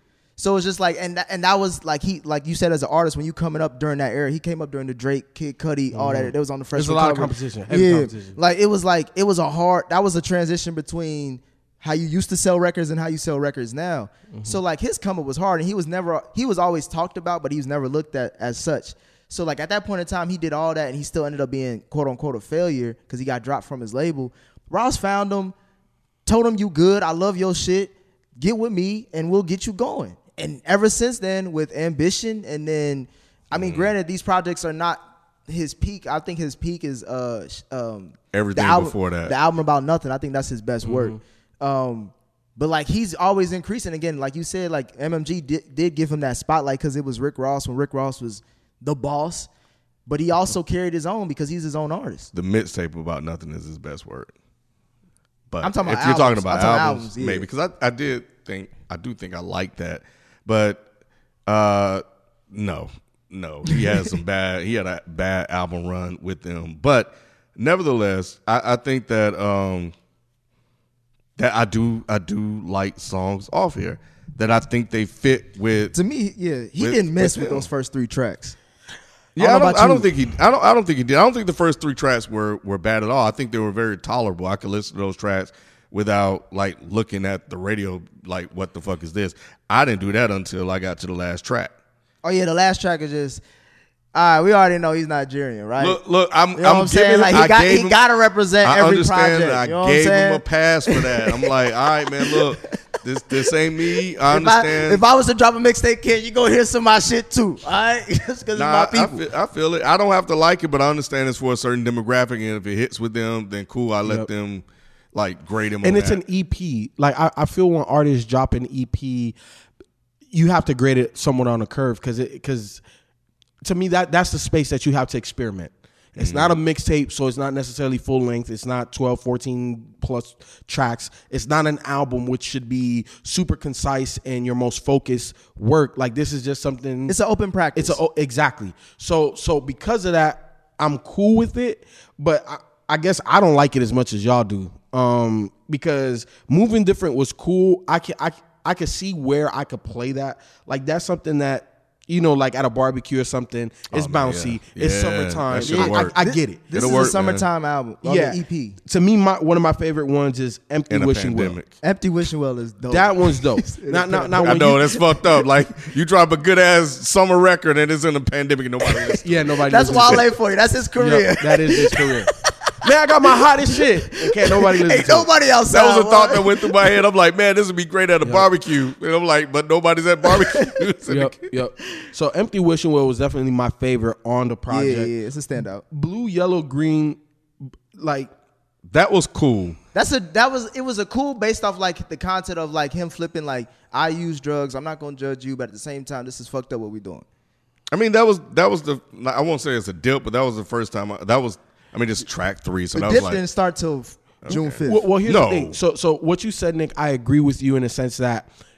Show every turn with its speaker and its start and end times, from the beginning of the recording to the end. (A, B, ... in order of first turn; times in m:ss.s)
0:00.4-0:25.6 A
0:05.9-0:08.4 B
0:14.3-0:14.6 B
0:26.3-0:49.5 A
0:33.5-0:33.9 C
0:38.3-0:39.4 C
0:40.8-0:41.2 B
0:50.1-0:52.3 A
0:52.3-0:54.3 C
0:55.5-1:00.8 C
0:55.6-0:57.5 A
1:01.5-1:09.9 C
1:03.7-1:04.0 A
1:11.4-1:16.0 C
1:15.9-1:18.6 A
1:16.8-1:17.7 C
1:19.4-1:31.7 C
1:19.4-1:20.1 A
1:32.2-1:33.4 A
1:34.1-1:36.0 A
1:35.8-1:38.0 C
1:36.6-1:42.7 A
1:38.6-1:45.0 C
1:43.3-1:49.2 A
1:48.6-1:56.2 C
1:55.8-1:59.4 B
2:00.3-2:02.8 B
2:03.6-2:17.2 B
2:06.2-2:06.6 C
2:17.1-2:18.0 A
2:17.8-2:37.1 B
2:33.9-2:36.2 C
2:35.6-2:38.8 A
2:36.7-2:37.4 C
2:38.0-2:41.6 B
2:40.9-2:41.7 C
2:41.8-2:45.4 A
2:42.9-2:44.9 B
2:44.4-2:49.5 C
2:49.0-2:57.0 A
2:49.2-2:50.2 B
2:51.0-2:55.3 B
2:55.7-3:01.5 C
2:58.2-2:58.5 B
3:00.3-3:00.8 A
3:01.1-3:05.1 B
3:04.7-3:05.8 A
3:05.9-3:07.2 B
3:07.9-3:08.3 B
3:08.9-3:09.8 C
3:09.9-3:17.2 A
3:17.9-3:23.4 C
3:22.9-3:25.0 A
3:24.4-3:25.8 C
3:24.8-3:28.5 B